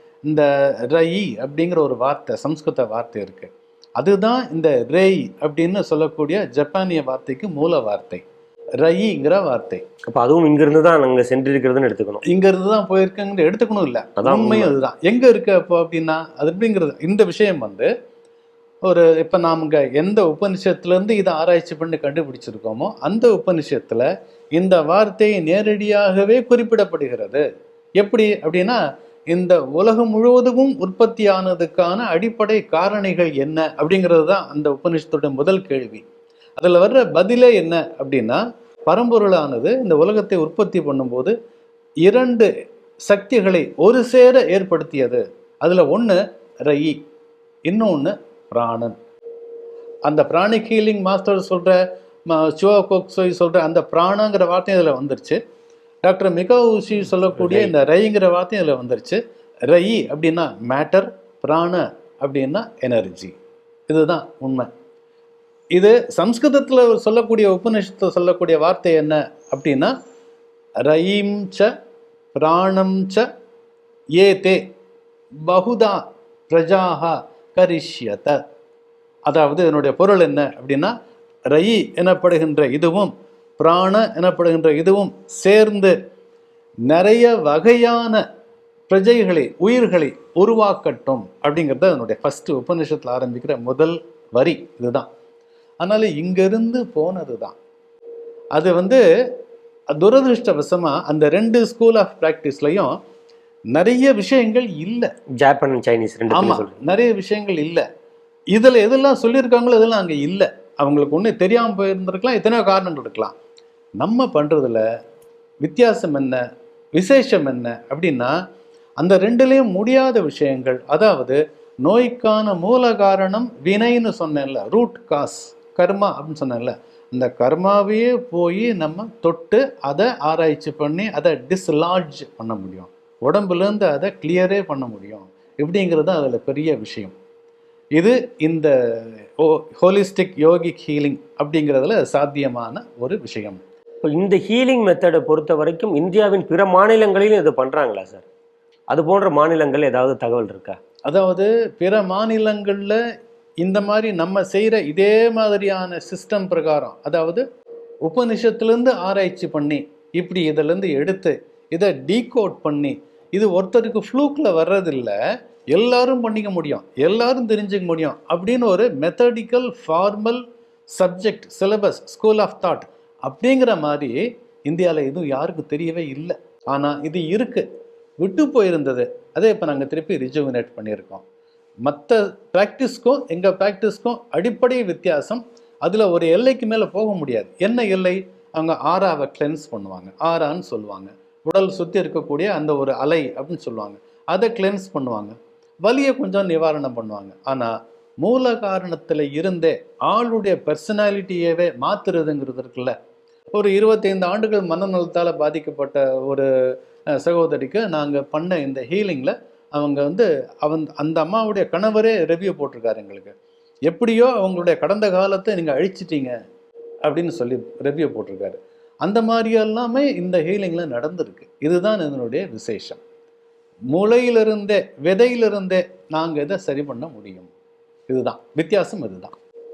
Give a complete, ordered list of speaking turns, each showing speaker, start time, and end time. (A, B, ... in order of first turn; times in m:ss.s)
0:00.3-0:08.2 A
0:08.8-0:09.8 A
0:10.1-0:12.2 B
0:12.2-0:17.9 A
0:14.2-0:14.7 B
0:18.9-0:27.4 A
0:28.0-0:28.8 A
0:29.3-0:36.0 A
0:36.6-0:41.3 A
0:42.0-0:42.5 A
0:43.1-0:47.0 A
0:47.7-0:49.0 A
0:50.1-0:55.4 A
0:56.0-1:03.4 A
1:03.9-1:04.7 A
1:05.8-1:09.9 A
1:10.8-1:11.7 A
1:12.4-1:13.2 A
1:14.2-1:14.6 A
1:15.5-1:18.4 A
1:19.3-1:20.9 A
1:21.5-1:26.0 A
1:26.9-1:28.2 A
1:28.9-1:35.1 A
1:35.8-1:37.6 A
1:38.6-1:39.0 A
1:40.0-1:42.9 A
1:43.7-1:45.1 A
1:45.4-1:46.8 B
1:46.3-1:47.8 A
1:48.5-1:53.4 A
1:54.0-1:54.8 A
1:55.6-1:56.4 A
1:57.0-1:58.4 A
1:59.0-2:17.1 A
2:18.0-2:18.7 A
2:19.4-2:23.6 A
2:24.0-2:28.2 B
2:28.9-2:30.8 B
2:31.1-2:33.0 A
2:33.6-2:37.4 A
2:38.0-2:45.2 A
2:45.7-2:50.4 A
2:51.0-2:57.6 A
2:58.2-3:01.2 A
3:01.9-3:23.0 A
3:23.5-3:26.5 A
3:27.2-3:33.4 A
3:33.9-3:36.4 A
3:37.0-3:43.0 A
3:43.9-3:47.5 A
3:48.1-3:49.3 A